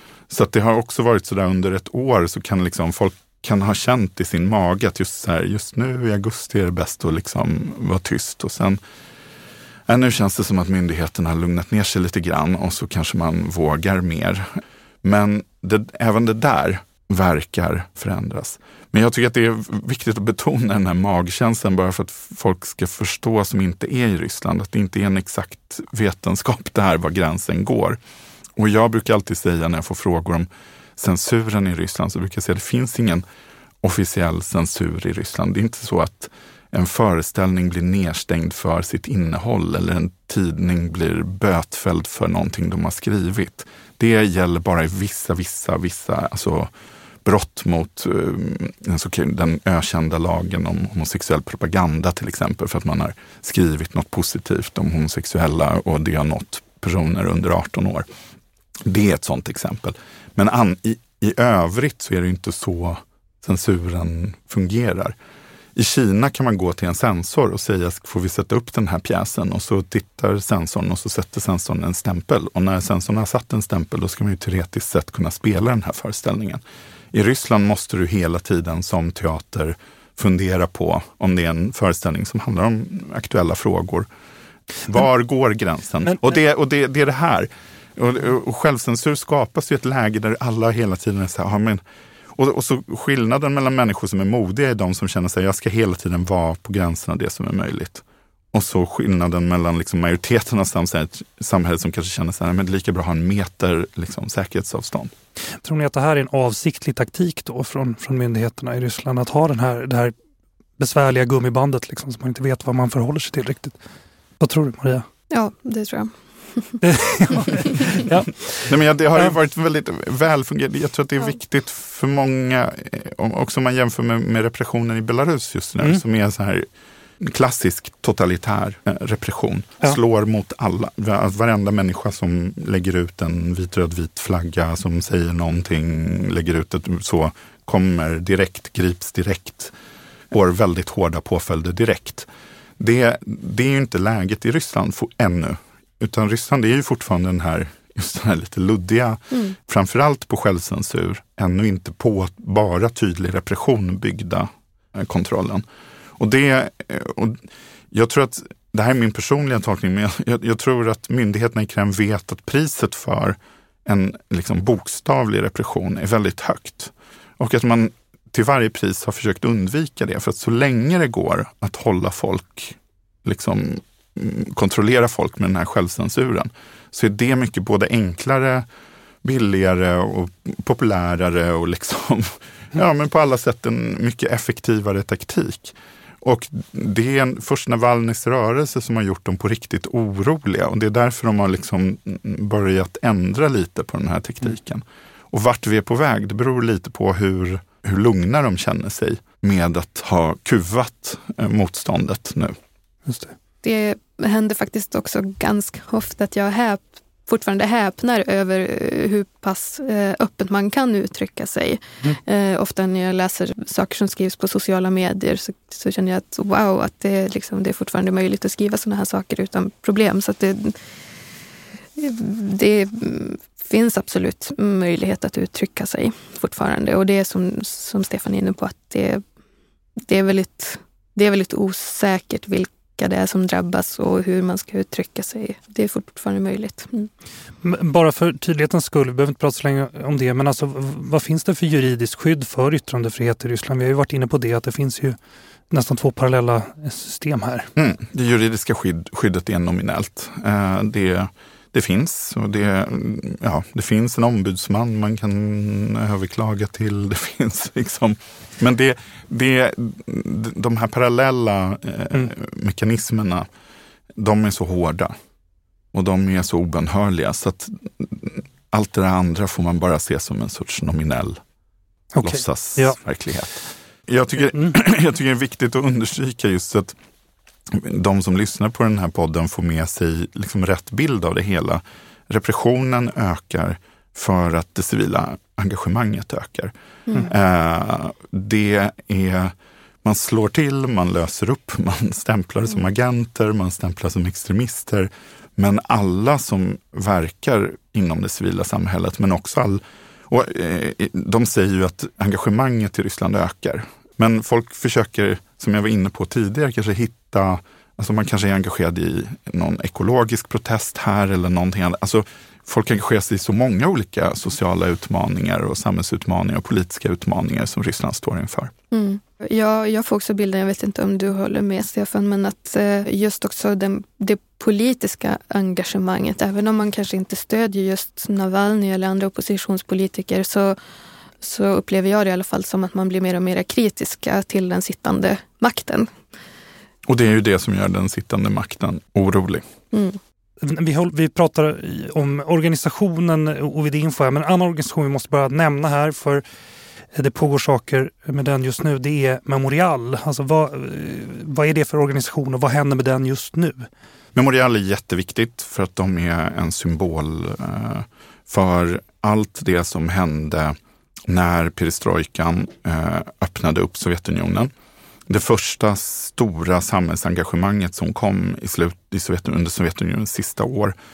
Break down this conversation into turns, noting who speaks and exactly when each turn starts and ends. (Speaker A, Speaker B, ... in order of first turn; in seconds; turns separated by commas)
Speaker A: 0.3-8.8, Speaker A: 9.9-14.5, Speaker A: 15.0-28.0, Speaker A: 28.6-33.2, Speaker A: 33.8-46.7, Speaker A: 47.2-58.0, Speaker A: 58.8-65.1, Speaker A: 65.7-84.1, Speaker A: 84.8-91.8, Speaker A: 92.3-105.1, Speaker B: 105.6-110.1, Speaker B: 110.8-113.8, Speaker B: 114.4-115.0, Speaker C: 115.3-116.8, Speaker B: 116.8-118.7, Speaker A: 118.6-126.7, Speaker A: 127.2-139.7, Speaker A: 140.3-142.3, Speaker A: 142.8-155.6, Speaker A: 156.2-178.7, Speaker A: 179.2-202.5, Speaker B: 203.1-203.3, Speaker C: 203.6-220.8, Speaker C: 222.0-229.2, Speaker C: 230.0-237.1, Speaker B: 237.6-245.2, Speaker B: 245.7-247.7, Speaker A: 247.8-263.5, Speaker A: 264.2-265.1, Speaker A: 265.9-271.4, Speaker B: 272.1-273.0, Speaker A: 272.2-276.9, Speaker A: 277.7-318.7, Speaker C: 318.9-330.8, Speaker C: 331.4-336.1, Speaker A: 337.1-339.6, Speaker C: 339.9-340.2, Speaker B: 340.6-346.4, Speaker B: 347.1-353.9, Speaker A: 354.3-360.8, Speaker A: 361.3-364.7, Speaker A: 365.3-370.9